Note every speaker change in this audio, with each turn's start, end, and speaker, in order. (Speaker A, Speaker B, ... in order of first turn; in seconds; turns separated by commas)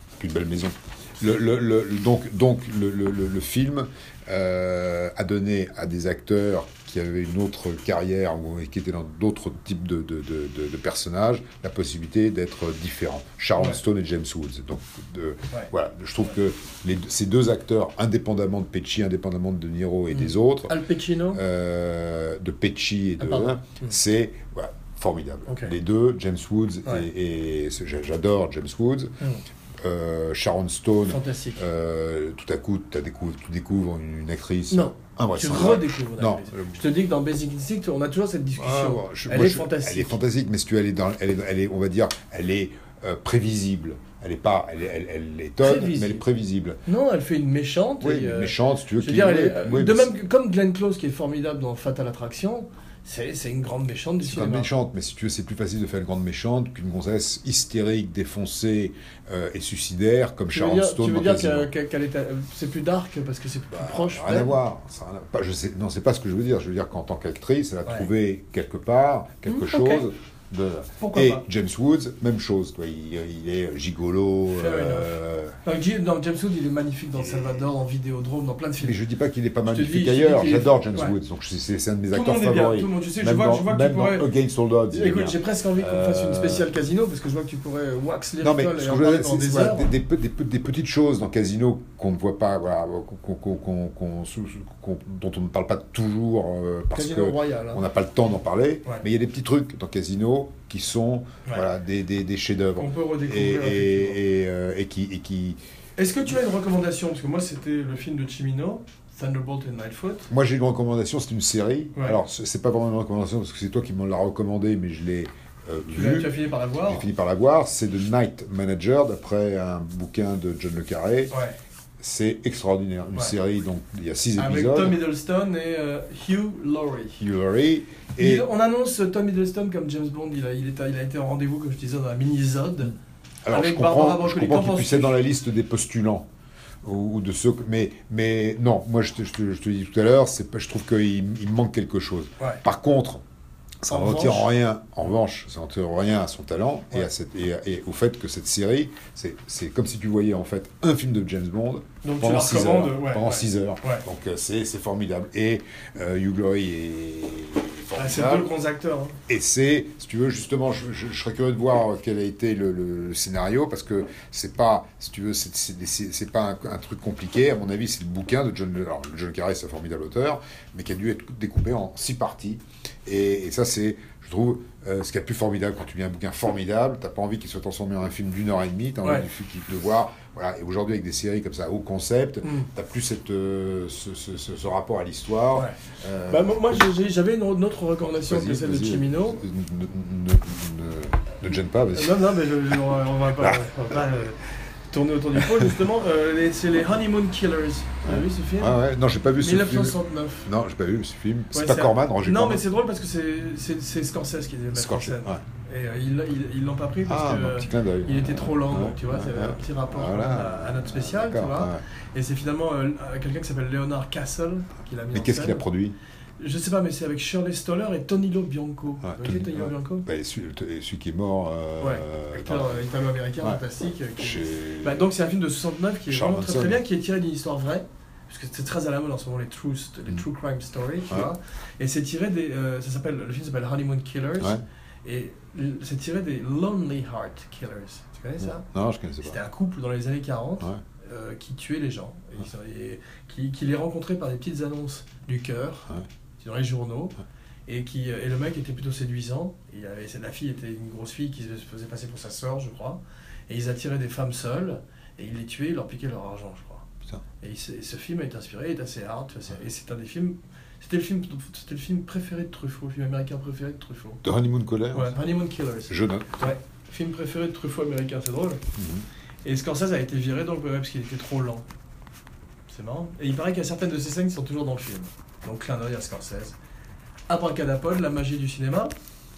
Speaker A: 0.2-20.8, Speaker B: 20.1-21.4, Speaker A: 21.3-29.1, Speaker B: 23.2-24.0, Speaker B: 25.5-25.7, Speaker A: 29.8-36.8, Speaker B: 31.1-31.6, Speaker B: 34.7-40.2, Speaker A: 38.6-46.8, Speaker B: 45.6-46.2, Speaker B: 46.9-54.7, Speaker A: 48.0-50.1, Speaker A: 54.2-61.7, Speaker B: 60.5-64.5, Speaker A: 63.7-75.6, Speaker B: 69.5-70.0, Speaker B: 71.0-71.4, Speaker B: 74.5-79.0, Speaker A: 77.2-77.6, Speaker A: 78.8-86.7, Speaker B: 79.7-81.2, Speaker B: 82.1-84.3, Speaker B: 84.9-89.9, Speaker A: 88.4-105.6, Speaker B: 96.9-97.8, Speaker B: 102.8-104.2, Speaker B: 106.0-110.3, Speaker A: 110.3-121.3, Speaker B: 115.9-117.1, Speaker B: 121.3-121.5, Speaker A: 122.0-125.0, Speaker B: 124.3-127.2, Speaker A: 127.2-128.5, Speaker B: 128.2-132.9, Speaker A: 133.4-136.3, Speaker B: 133.5-135.2, Speaker A: 136.8-143.2, Speaker A: 143.8-158.5, Speaker B: 143.9-144.5, Speaker B: 152.0-154.0, Speaker B: 157.9-159.2, Speaker A: 159.3-186.8, Speaker B: 182.4-182.7, Speaker B: 186.3-189.4, Speaker A: 188.2-192.3, Speaker B: 191.9-198.8, Speaker A: 193.4-193.8, Speaker A: 195.4-195.7, Speaker A: 198.0-202.6, Speaker B: 199.4-200.5, Speaker B: 201.5-215.6, Speaker A: 204.7-205.4, Speaker A: 207.1-211.8, Speaker A: 215.1-216.0, Speaker B: 216.4-220.1, Speaker A: 219.0-222.8, Speaker B: 221.8-238.7, Speaker A: 224.2-225.1, Speaker A: 226.1-226.8, Speaker A: 238.4-239.4, Speaker B: 239.2-245.9, Speaker B: 246.4-256.9, Speaker B: 257.4-264.2, Speaker A: 264.2-265.2, Speaker B: 264.9-268.6, Speaker A: 265.9-266.4, Speaker A: 268.8-269.1, Speaker B: 269.4-271.6, Speaker B: 272.7-276.6, Speaker B: 277.3-278.9